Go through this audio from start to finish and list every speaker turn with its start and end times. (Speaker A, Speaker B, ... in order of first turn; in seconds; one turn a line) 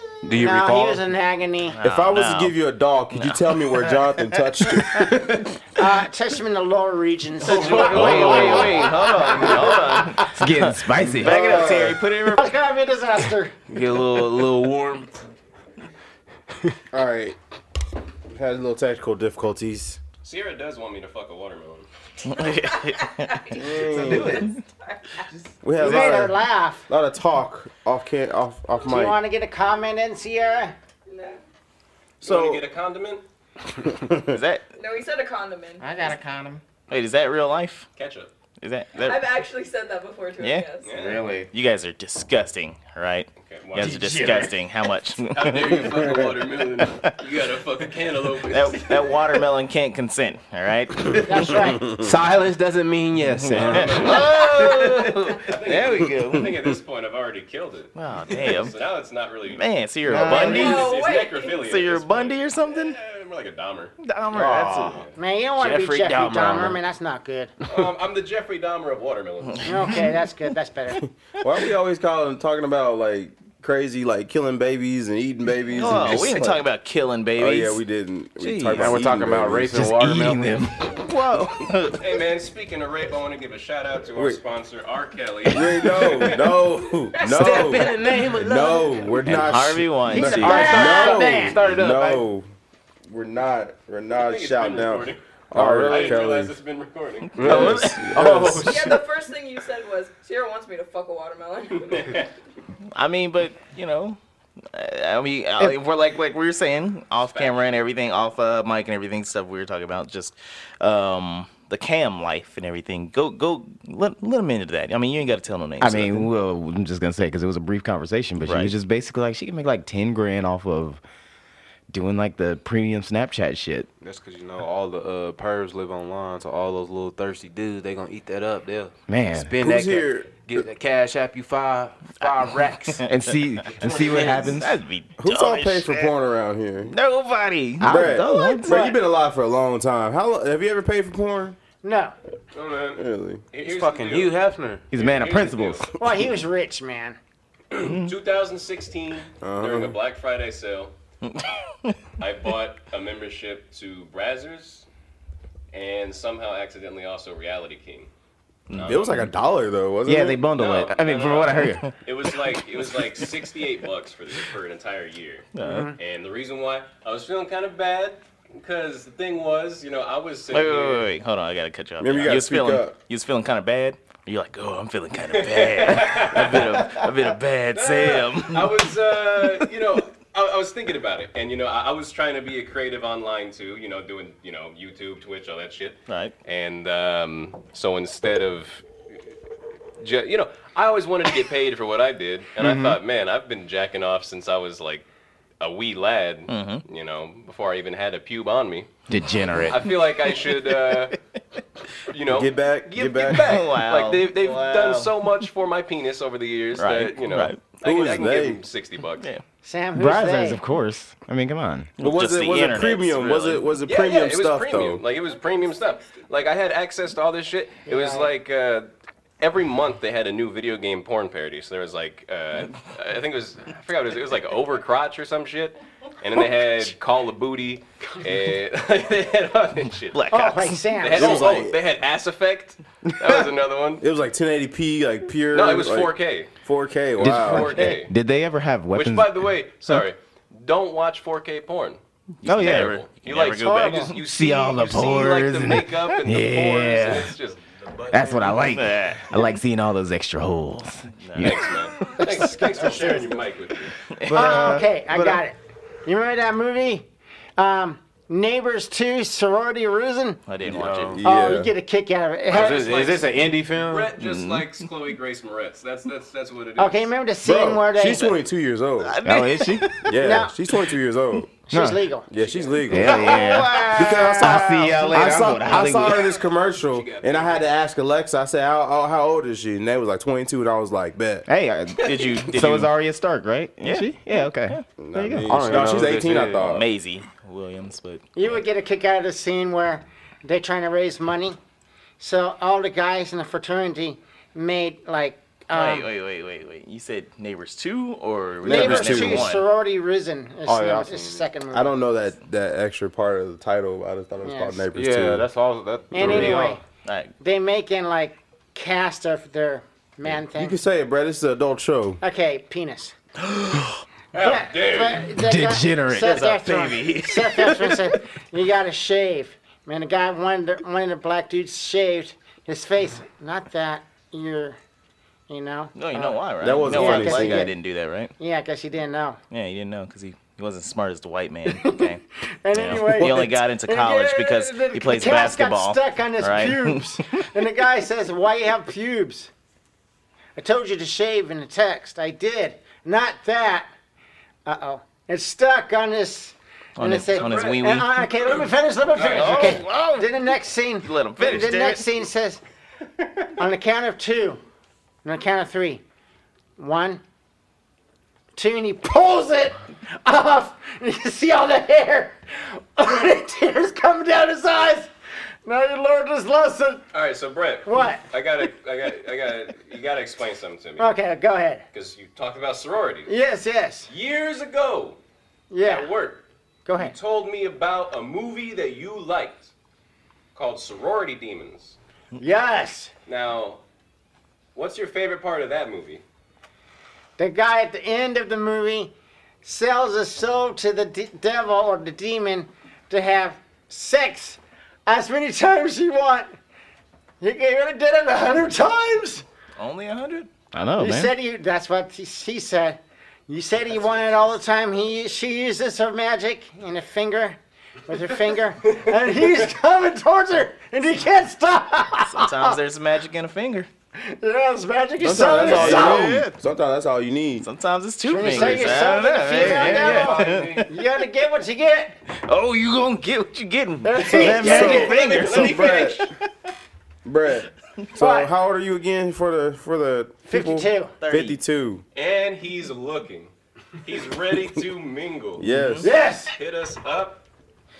Speaker A: 0.2-1.0
Speaker B: 0.3-1.8
Speaker C: 1.7-2.5
Speaker D: 1.8-5.5
Speaker C: 3.1-4.4
Speaker B: 5.7-9.6
Speaker A: 7.4-10.0
Speaker C: 7.5-12.4
Speaker E: 8.1-8.7
Speaker E: 10.1-11.7
Speaker D: 11.2-12.0
Speaker B: 12.3-13.6
Speaker A: 13.7-15.1
Speaker D: 16.9-17.4
Speaker D: 18.3-20.0
Speaker F: 20.2-21.9
Speaker C: 22.2-24.6
Speaker G: 22.8-24.2
Speaker D: 23.5-24.4
Speaker A: 24.1-24.4
Speaker G: 24.8-25.3
Speaker D: 25.6-29.2
Speaker B: 25.8-26.9
Speaker B: 28.8-30.7
Speaker G: 31.1-31.4
Speaker F: 32.2-33.2
Speaker C: 34.1-34.6
Speaker G: 34.7-36.0
Speaker E: 35.8-36.6
Speaker C: 36.9-37.9
Speaker F: 38.0-38.3
Speaker C: 38.6-39.3
Speaker G: 39.0-41.0
Speaker C: 40.4-40.7
Speaker F: 40.8-41.3
Speaker E: 40.9-41.5
Speaker C: 41.5-45.9
Speaker F: 43.4-44.4
Speaker F: 45.3-49.4
Speaker C: 48.5-51.6
Speaker B: 51.2-51.9
Speaker D: 51.8-52.0
Speaker A: 51.9-55.1
Speaker F: 53.5-54.5
Speaker C: 53.5-56.5
Speaker F: 55.4-63.9
Speaker C: 57.9-58.8
Speaker C: 59.5-61.0
Speaker E: 60.1-60.5
Speaker G: 60.2-61.6
Speaker C: 61.5-63.0
Speaker C: 64.0-65.0
Speaker A: 64.3-66.8
Speaker F: 64.8-65.1
Speaker B: 65.2-67.5
Speaker F: 67.7-69.9
Speaker C: 69.4-70.1
Speaker B: 69.6-71.0
Speaker D: 71.0-76.7
Speaker C: 75.7-77.8
Speaker D: 77.3-79.8
Speaker E: 78.4-78.9
Speaker C: 78.4-78.9
Speaker A: 78.8-80.6
Speaker E: 79.8-81.0
Speaker C: 80.9-82.0
Speaker F: 82.0-86.5
Speaker D: 85.5-92.5
Speaker G: 87.1-87.5
Speaker C: 87.2-90.7
Speaker A: 87.5-88.6
Speaker B: 90.1-91.6
Speaker A: 90.3-92.2
Speaker D: 93.1-96.5
Speaker F: 94.1-95.2
Speaker A: 95.5-96.2
Speaker F: 95.8-97.7
Speaker C: 97.3-98.2
Speaker D: 97.4-99.0
Speaker A: 97.4-99.0
Speaker G: 98.6-102.2
Speaker F: 101.8-102.3
Speaker C: 102.9-104.2
Speaker C: 104.7-116.3
Speaker F: 107.2-107.7
Speaker E: 115.8-121.0
Speaker C: 118.4-118.7
Speaker E: 121.9-123.9
Speaker A: 124.0-133.0
Speaker E: 129.1-129.5
Speaker D: 129.6-130.6
Speaker E: 133.1-134.8
Speaker A: 133.8-134.6
Speaker F: 133.8-134.3
Speaker C: 134.1-136.1
Speaker D: 135.2-136.9
Speaker C: 136.8-138.9
Speaker E: 137.8-138.9
Speaker D: 137.8-141.6
Speaker B: 141.8-142.1
Speaker F: 142.5-144.4
Speaker D: 142.9-143.4
Speaker A: 143.6-144.9
Speaker E: 144.9-145.9
Speaker F: 144.9-145.8
Speaker B: 146.0-147.2
Speaker F: 147.7-150.9
Speaker D: 149.4-149.9
Speaker C: 151.2-152.0
Speaker F: 152.2-154.9
Speaker F: 155.7-158.1
Speaker C: 158.7-159.1
Speaker F: 158.7-159.3
Speaker D: 158.8-160.4
Speaker E: 160.0-161.8
Speaker F: 160.6-171.1
Speaker C: 165.5-165.9
Speaker B: 165.6-166.0
Speaker C: 170.5-178.9
Speaker D: 172.0-173.0
Speaker F: 175.3-177.1
Speaker F: 177.7-188.8
Speaker C: 186.1-186.3
Speaker F: 190.0-195.1
Speaker E: 192.6-193.0
Speaker F: 195.6-198.9
Speaker C: 196.5-196.8
Speaker E: 199.1-199.8
Speaker F: 199.6-201.2
Speaker F: 202.1-209.3
Speaker D: 202.2-203.6
Speaker C: 203.1-205.1
Speaker C: 206.8-207.8
Speaker D: 207.8-208.6
Speaker B: 209.6-210.6
Speaker E: 209.9-211.9
Speaker C: 212.0-213.7
Speaker D: 212.0-215.0
Speaker F: 213.8-218.9
Speaker B: 217.8-218.3
Speaker F: 219.4-230.2
Speaker C: 230.1-230.9
Speaker B: 230.3-231.4
Speaker F: 231.0-234.0
Speaker D: 231.1-231.8
Speaker D: 234.0-237.9
Speaker F: 235.5-236.5
Speaker E: 237.2-240.0
Speaker F: 237.2-238.1
Speaker F: 238.9-248.6
Speaker E: 242.4-243.0
Speaker C: 242.4-244.2
Speaker B: 243.6-244.2
Speaker E: 244.2-247.3
Speaker E: 248.1-251.7
Speaker C: 248.6-249.3
Speaker C: 251.2-251.7
Speaker F: 251.4-254.0
Speaker B: 252.2-253.4
Speaker C: 254.1-255.4
Speaker E: 254.2-254.9
Speaker B: 254.3-260.4
Speaker C: 260.5-261.2
Speaker A: 260.6-261.2
Speaker D: 261.1-261.7
Speaker B: 261.2-262.8
Speaker A: 262.5-264.1
Speaker F: 262.5-267.1
Speaker C: 264.2-264.7
Speaker B: 266.8-268.4
Speaker D: 267.4-269.2
Speaker C: 269.0-270.1
Speaker E: 269.2-270.1
Speaker D: 270.1-271.5
Speaker B: 270.2-270.6
Speaker B: 271.7-272.3
Speaker E: 271.7-272.1
Speaker D: 272.3-281.4
Speaker F: 272.4-273.3
Speaker E: 272.9-276.3
Speaker F: 276.9-277.7
Speaker E: 281.5-285.6
Speaker C: 282.0-282.9
Speaker C: 283.8-284.1
Speaker D: 285.0-286.9
Speaker A: 285.5-286.7
Speaker C: 286.6-288.2
Speaker B: 288.4-291.6
Speaker B: 292.2-296.1
Speaker C: 295.7-299.6
Speaker D: 298.6-299.5
Speaker B: 298.6-301.9
Speaker A: 300.6-301.5
Speaker D: 301.7-305.5
Speaker B: 304.4-304.9
Speaker A: 304.9-306.8
Speaker B: 306.1-306.8
Speaker D: 306.2-306.5
Speaker C: 307.0-307.3
Speaker B: 307.4-310.8
Speaker D: 310.5-312.2
Speaker B: 312.2-313.1
Speaker C: 313.5-314.0
Speaker F: 314.3-315.4
Speaker B: 314.4-324.8
Speaker E: 315.4-316.5
Speaker C: 316.2-318.1
Speaker B: 325.5-327.7
Speaker C: 325.9-328.3
Speaker D: 326.6-327.7
Speaker B: 328.4-329.4
Speaker C: 329.5-332.2
Speaker B: 331.7-339.5
Speaker C: 332.7-337.4
Speaker B: 340.6-343.9
Speaker B: 344.6-352.6
Speaker C: 347.0-348.2
Speaker F: 347.3-347.8
Speaker F: 348.4-349.8
Speaker C: 349.3-350.3
Speaker C: 351.0-352.0
Speaker B: 353.5-354.6
Speaker B: 355.2-356.0
Speaker B: 356.8-357.2
Speaker B: 358.6-365.1
Speaker B: 365.6-367.0
Speaker F: 367.1-371.1
Speaker B: 367.9-368.3
Speaker B: 371.0-371.8
Speaker F: 371.9-373.3
Speaker B: 373.3-374.1
Speaker F: 374.1-375.2
Speaker B: 375.7-376.1
Speaker F: 375.8-379.7
Speaker B: 376.9-377.1
Speaker F: 380.5-381.9
Speaker B: 382.4-383.1
Speaker F: 383.2-383.8
Speaker F: 384.7-386.2
Speaker B: 387.4-396.5
Speaker B: 397.4-399.4
Speaker C: 399.8-400.5
Speaker E: 400.7-401.3
Speaker B: 401.0-412.8
Speaker C: 412.2-413.9
Speaker B: 414.2-416.4
Speaker D: 415.2-417.7
Speaker C: 415.6-416.5
Speaker E: 415.7-416.5
Speaker C: 417.6-420.9
Speaker B: 418.2-422.1
Speaker A: 418.5-418.9
Speaker A: 419.5-420.9
Speaker C: 422.3-426.3
Speaker B: 424.0-425.2
Speaker D: 424.2-426.3
Speaker F: 424.6-426.3
Speaker D: 427.2-432.0
Speaker B: 428.2-428.5
Speaker B: 430.5-431.1
Speaker C: 431.2-431.6
Speaker F: 432.1-435.6
Speaker D: 435.6-436.1
Speaker C: 435.7-436.1
Speaker B: 436.0-436.5
Speaker F: 436.4-437.4